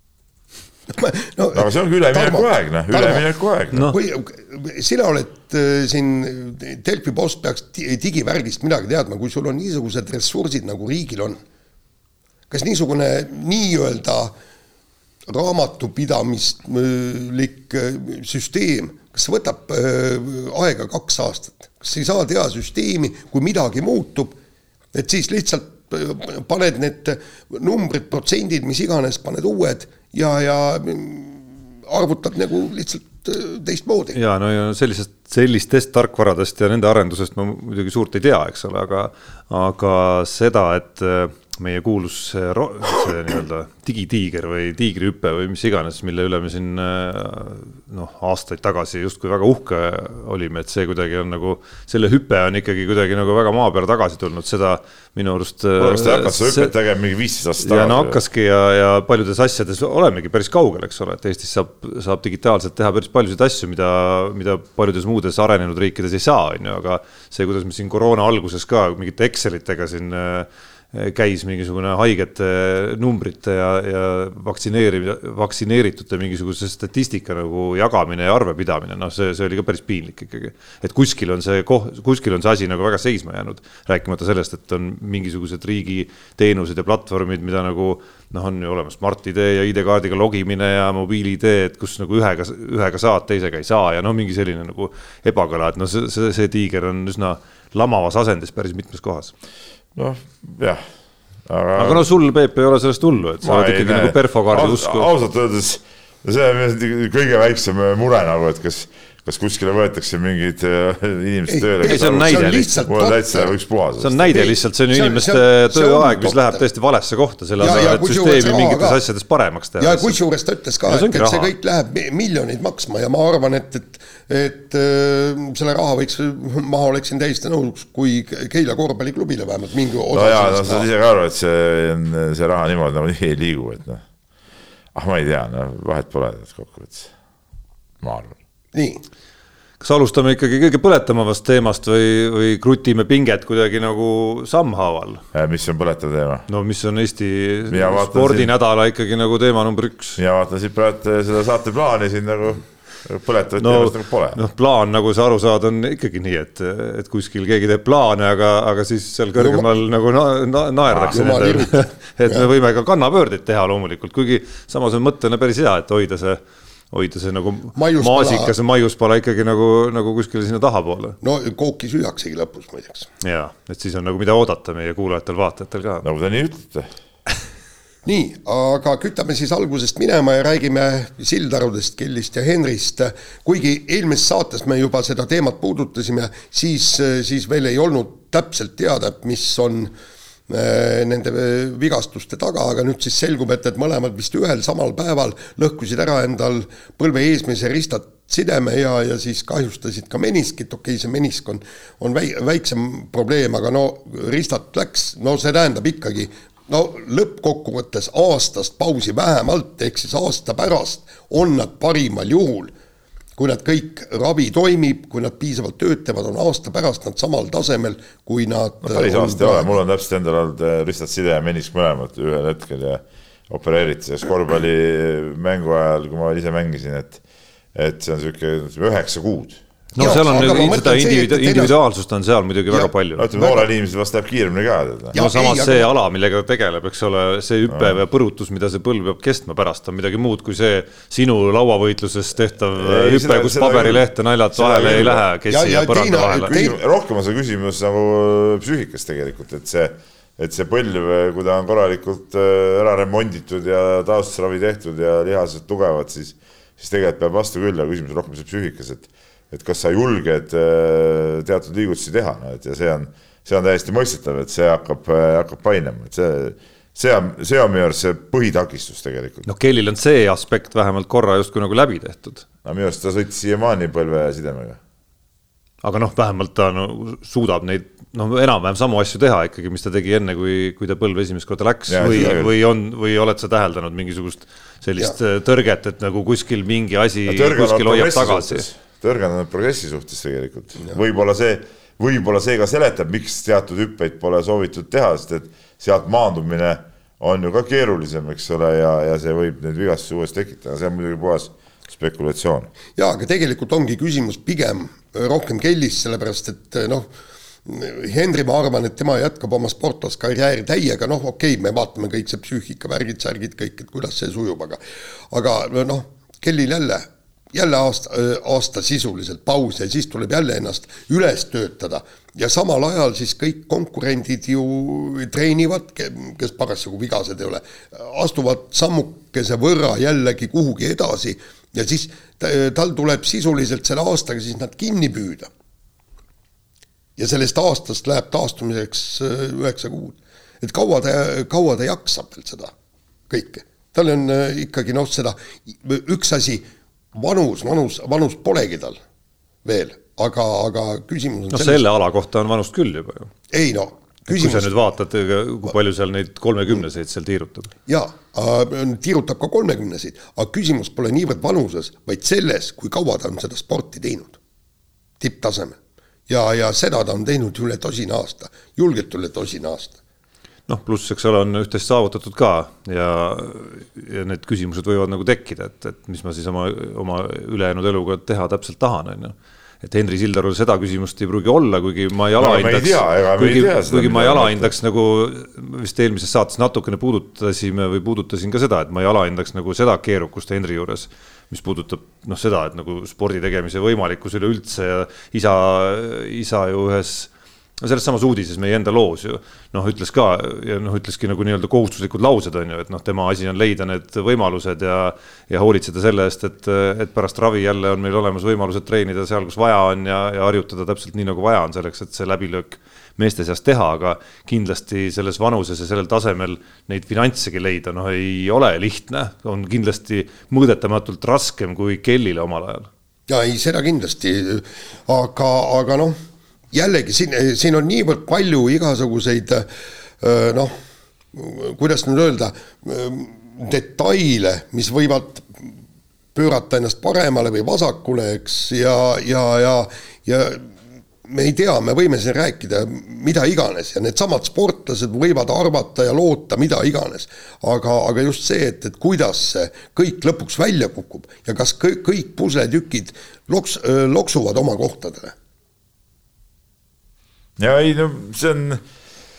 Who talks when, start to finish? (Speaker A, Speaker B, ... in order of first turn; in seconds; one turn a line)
Speaker A: 0.9-3.3
Speaker B: 1.5-3.9
Speaker A: 3.9-11.4
Speaker A: 12.5-14.3
Speaker A: 15.3-24.3
Speaker A: 24.9-34.2
Speaker C: 34.1-56.7
Speaker B: 55.8-58.2
Speaker C: 57.6-99.3
Speaker B: 100.0-100.8
Speaker B: 101.5-102.0
Speaker C: 101.8-105.1
Speaker B: 103.4-114.4
Speaker A: 111.5-113.5
Speaker C: 111.8-112.8
Speaker C: 114.0-120.2
Speaker A: 114.3-116.6
Speaker A: 117.6-119.0
Speaker A: 119.8-130.9
Speaker C: 120.8-121.5
Speaker B: 130.1-134.0
Speaker B: 134.9-137.1
Speaker B: 138.0-138.4
Speaker A: 138.7-139.0
Speaker C: 139.8-145.2
Speaker B: 145.3-146.5
Speaker C: 146.5-150.2
Speaker B: 147.7-148.5
Speaker B: 150.2-154.4
Speaker C: 153.6-166.4
Speaker A: 159.4-159.7
Speaker B: 160.9-161.2
Speaker A: 161.1-162.4
Speaker C: 166.9-171.2
Speaker A: 167.8-168.5
Speaker A: 171.2-173.1
Speaker C: 173.2-176.1
Speaker B: 176.0-176.9
Speaker A: 178.1-189.9
Speaker A: 190.5-212.7
Speaker A: 213.4-219.7
Speaker B: 218.8-227.2
Speaker B: 227.7-229.6
Speaker C: 229.9-233.3
Speaker A: 230.0-231.8
Speaker A: 232.7-233.7
Speaker B: 233.2-235.2
Speaker A: 235.1-235.9
Speaker C: 235.1-246.5
Speaker B: 237.7-238.0
Speaker B: 242.8-245.2
Speaker A: 245.5-246.8
Speaker B: 246.4-269.5
Speaker C: 269.5-272.4
Speaker B: 272.6-274.8
Speaker C: 275.8-288.7
Speaker B: 281.9-282.5
Speaker B: 287.3-302.7
Speaker A: 303.0-307.1
Speaker A: 307.7-314.8
Speaker A: 315.3-335.5
Speaker A: 337.2-342.7
Speaker A: 343.3-349.0
Speaker A: 349.6-351.8
Speaker C: 351.5-353.3
Speaker A: 353.5-354.7
Speaker C: 354.3-357.7
Speaker A: 357.9-364.4
Speaker A: 365.2-365.8
Speaker A: 366.3-370.0
Speaker C: 370.7-422.9
Speaker B: 382.4-384.7
Speaker A: 423.3-426.2
Speaker A: 426.7-429.7
Speaker A: 430.2-430.7
Speaker A: 431.3-435.5
Speaker A: 436.4-440.7
Speaker A: 441.2-455.3
Speaker B: 457.6-458.8